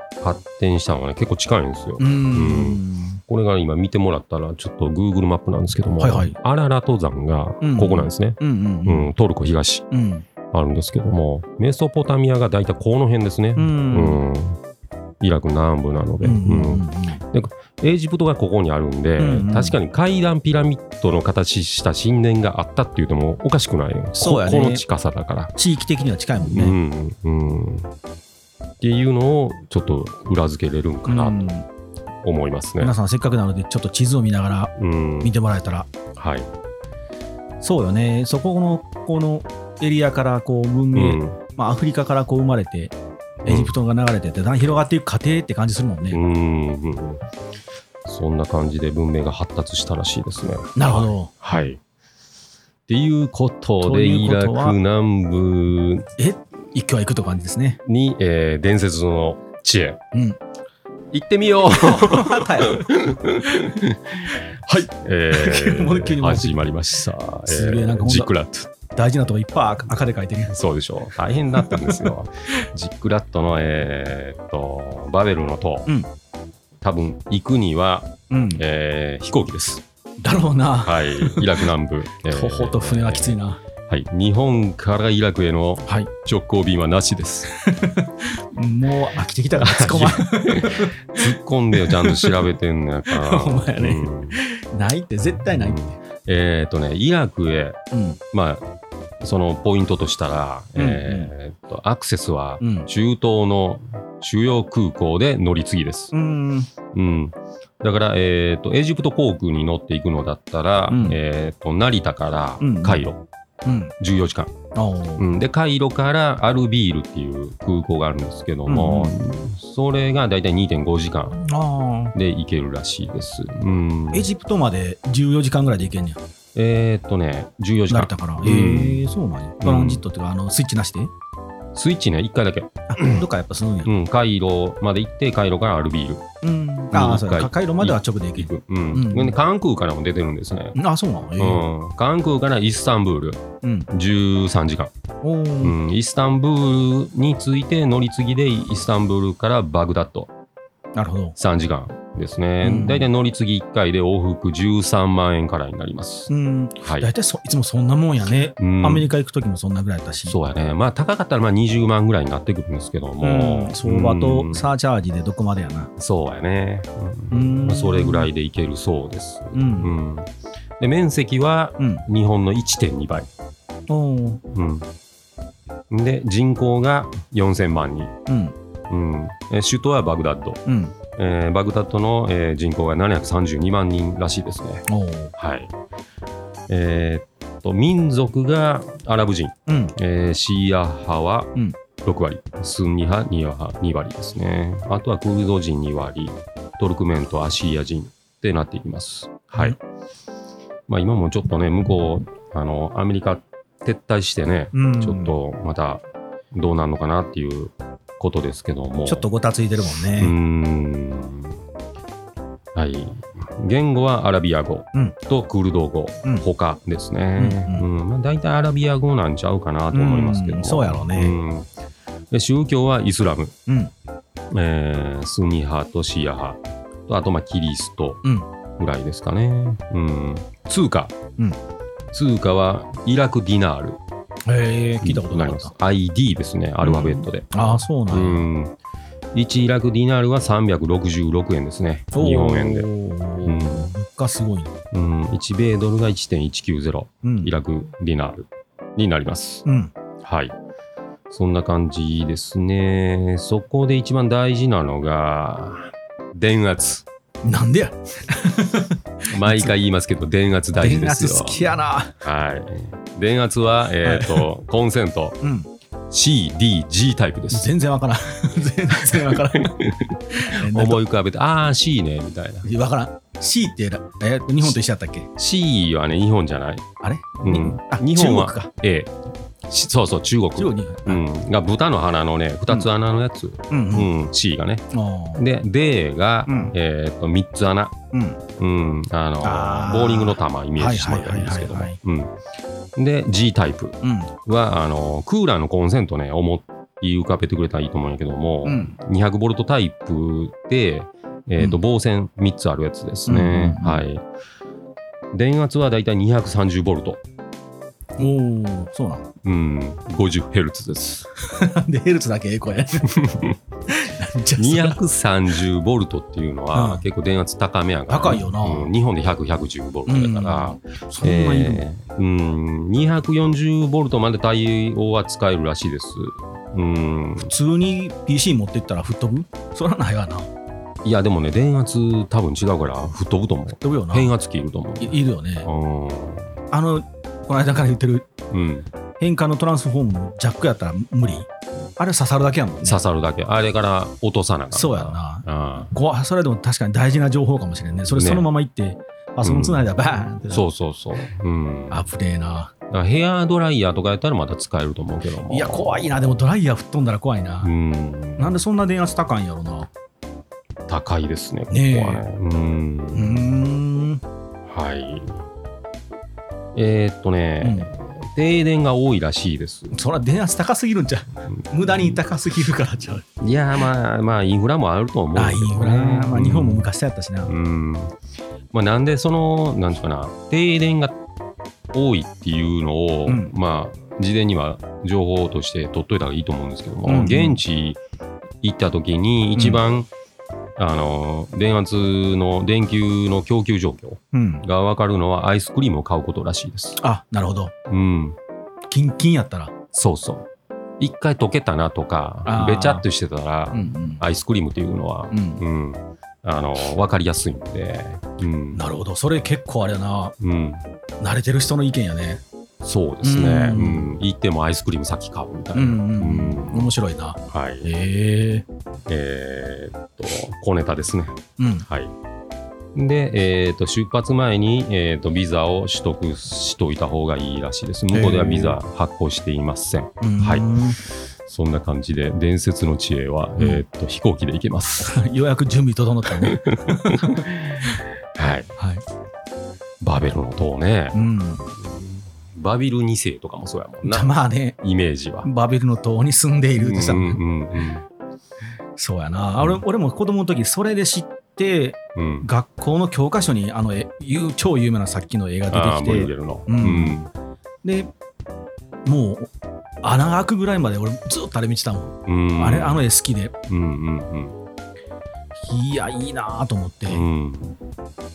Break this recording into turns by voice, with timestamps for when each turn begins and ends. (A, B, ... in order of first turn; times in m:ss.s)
0:00.2-0:09.8 A
0:02.0-0:03.2 B
0:06.0-0:06.4 B
0:07.6-0:09.1 B
0:09.9-0:10.3 B
0:10.5-0:14.6 A
0:13.6-0:14.2 B
0:15.2-0:25.6 A
0:16.2-0:17.2 B
0:19.2-0:19.8 B
0:24.2-0:24.8 B
0:25.6-0:26.8 B
0:26.4-0:27.9 A
0:28.8-0:31.5 A
0:31.0-0:31.7 B
0:32.2-0:32.9 A
0:32.8-0:35.9 B
0:34.8-0:35.3 A
0:36.2-0:36.5 A
0:37.6-0:46.2 B
0:41.0-0:41.4 A
0:43.4-0:43.8 A
0:46.1-0:47.2 A
0:48.0-0:51.8 A
0:50.8-0:51.3 B
0:52.9-0:56.1 A
0:53.8-0:54.8 B
0:56.2-0:57.8 B
0:57.8-1:00.0 A
1:00.1-1:00.4 B
1:01.1-1:04.4 A
1:01.8-1:02.9 B
1:03.4-1:03.8 B
1:04.7-1:06.6 B
1:05.0-1:08.7 A
1:07.5-1:08.3 B
1:08.9-1:10.5 B
1:10.5-1:15.9 A
1:11.6-1:12.1 B
1:16.8-1:19.8 A
1:18.3-1:18.6 B
1:20.2-1:21.7 B
1:20.8-1:23.4 A
1:22.2-1:23.6 B
1:23.9-1:27.5 A
1:27.6-1:32.5 B
1:29.6-1:34.4 A
1:33.1-1:36.0 B
1:35.6-1:37.8 A
1:37.9-1:38.2 B
1:38.3-1:38.6 A
1:39.2-1:46.1 A
1:40.8-1:41.3 B
1:42.6-1:42.9 B
1:46.1-1:46.7 B
1:46.9-1:53.2 A
1:50.9-1:51.2 B
1:52.6-1:53.0 B
1:53.6-1:53.9 B
1:54.0-1:54.5 A
1:54.7-1:55.2 B
1:55.2-2:01.4 A
1:58.7-1:59.2 B
2:01.4-2:02.1 B
2:02.1-2:04.3 A
2:04.1-2:06.2 B
2:06.6-2:10.0 A
2:07.9-2:11.1 B
2:11.8-2:13.2 A
2:12.9-2:13.9 B
2:13.8-2:16.2 A
2:16.4-2:19.4 B
2:16.9-2:20.8 A
2:20.8-2:21.6 B
2:21.4-2:24.9 A
2:23.6-2:23.9 B
2:25.2-2:25.8 B
2:25.6-2:30.3 A
2:31.0-2:31.4 B
2:31.4-2:37.1 A
2:32.6-2:33.1 B
2:36.3-2:40.4 B
2:38.6-2:39.1 A
2:40.3-2:44.6 A
2:43.2-2:45.9 B
2:46.0-2:53.3 A
2:47.3-2:48.3 B
2:49.6-2:49.9 B
2:51.8-2:52.0 B
2:53.9-2:54.4 B
2:54.5-2:54.9 A
2:55.9-2:58.1 A
2:58.3-2:58.6 B
2:58.9-3:00.6 A
3:00.7-3:01.0 B
3:01.2-3:05.7 A
3:04.9-3:05.3 B
3:06.7-3:19.8 A
3:09.7-3:09.9 B
3:20.9-3:29.3 A
3:24.7-3:25.4 B
3:29.1-3:30.4 B
3:30.2-3:31.6 A
3:32.8-3:41.7 A
3:37.4-3:37.9 B
3:39.9-3:41.4 B
3:42.3-3:43.5 A
3:43.7-3:43.9 B
3:44.5-3:48.2 A
3:48.8-3:51.2 A
3:52.1-3:54.0 A
3:54.5-3:55.7 B
3:55.0-3:58.7 A
3:56.8-3:58.5 B
3:59.3-4:02.9 A
4:02.1-4:04.7 B
4:03.4-4:03.9 A
4:04.9-4:09.6 A
4:07.2-4:07.5 B
4:09.6-4:09.9 B
4:10.2-4:10.6 A
4:11.3-4:17.1 A
4:17.4-4:19.7 B
4:19.3-4:25.4 A
4:20.8-4:22.1 B
4:24.0-4:24.5 B
4:25.4-4:25.7 B
4:26.1-4:27.7 A
4:27.5-4:31.0 B
4:29.0-4:32.7 A
4:32.6-4:35.3 B
4:35.4-4:36.8 A
4:37.0-4:38.7 B
4:37.4-4:39.1 A
4:39.6-4:44.8 A
4:40.6-4:41.2 B
4:43.7-4:44.1 B
4:44.9-4:45.4 B
4:45.4-4:48.0 A
4:46.5-4:46.7 B
4:48.1-4:48.4 B
4:48.6-4:52.4 A
4:49.4-4:52.0 B
4:53.0-5:04.2 A
4:54.0-4:54.3 B
4:58.6-4:59.0 B
5:03.3-5:04.0 B
5:05.3-5:07.2 A
5:08.2-5:09.3 B
5:09.4-5:11.3 A
5:11.5-5:13.1 B
5:13.0-5:13.6 A
5:13.9-5:15.0 B
5:14.6-5:27.5 A
5:16.7-5:17.1 B
5:18.1-5:18.9 B
5:20.1-5:21.9 B
5:27.4-5:30.5 B
5:31.0-5:36.6 A
5:33.8-5:34.3 B
5:35.0-5:35.7 B
5:36.7-5:38.3 B
5:38.5-5:38.9 A
5:39.2-5:43.0 B
5:42.8-5:45.9 A
5:44.7-5:50.6 B
5:48.1-5:48.5 A
5:49.4-5:49.9 A
5:50.5-5:52.0 A
5:51.9-5:52.7 B
5:52.9-5:56.3 A
5:55.4-5:57.7 B
5:57.6-5:58.6 A
5:58.4-5:59.9 B
6:00.9-6:03.6 A
6:01.7-6:02.2 B
6:03.1-6:04.2 B
6:04.7-6:05.4 A
6:06.8-6:10.0 A
6:07.6-6:07.9 B
6:09.9-6:13.2 B
6:11.5-6:12.2 A
6:13.4-6:16.9 A
6:15.3-6:17.5 B
6:17.5-6:18.2 A
6:18.7-6:21.2 A
6:21.9-6:28.0 A
6:23.3-6:23.5 B
6:27.1-6:27.6 B
6:28.6-6:30.1 A
6:29.6-6:29.8 B
6:30.8-6:37.0 A
6:34.3-6:34.6 B
6:37.0-6:37.7 B
6:37.9-6:38.4 A
6:38.9-6:39.7 B
6:39.9-6:40.5 A
6:41.0-6:48.8 A
6:42.5-6:43.0 B
6:43.7-6:44.2 B
6:45.3-6:45.6 B
6:48.7-6:50.4 B
6:50.4-6:50.8 A
6:51.2-6:52.4 B
6:52.8-6:57.0 A
6:53.2-6:54.1 B
6:55.7-6:58.7 B
6:57.5-6:57.9 A
6:59.1-7:02.1 A
7:01.6-7:01.9 B
7:03.0-7:15.2 A
7:08.1-7:08.8 B
7:10.2-7:11.0 B
7:15.0-7:18.0 B
7:16.4-7:18.7 A
7:18.8-7:19.0 B
7:20.0-7:21.2 A
7:21.1-7:21.7 B
7:21.8-7:24.3 A
7:24.1-7:24.8 B
7:24.8-7:25.5 A
7:25.4-7:27.4 B
7:26.8-7:28.0 A
7:29.0-7:37.2 B
7:32.2-7:32.5 A
7:35.7-7:37.3 A
7:37.8-7:38.1 B
7:39.0-7:39.5 B
7:40.0-7:43.5 B
7:42.3-7:43.1 A
7:43.7-7:44.6 A
7:45.6-7:47.2 B
7:47.1-7:47.8 A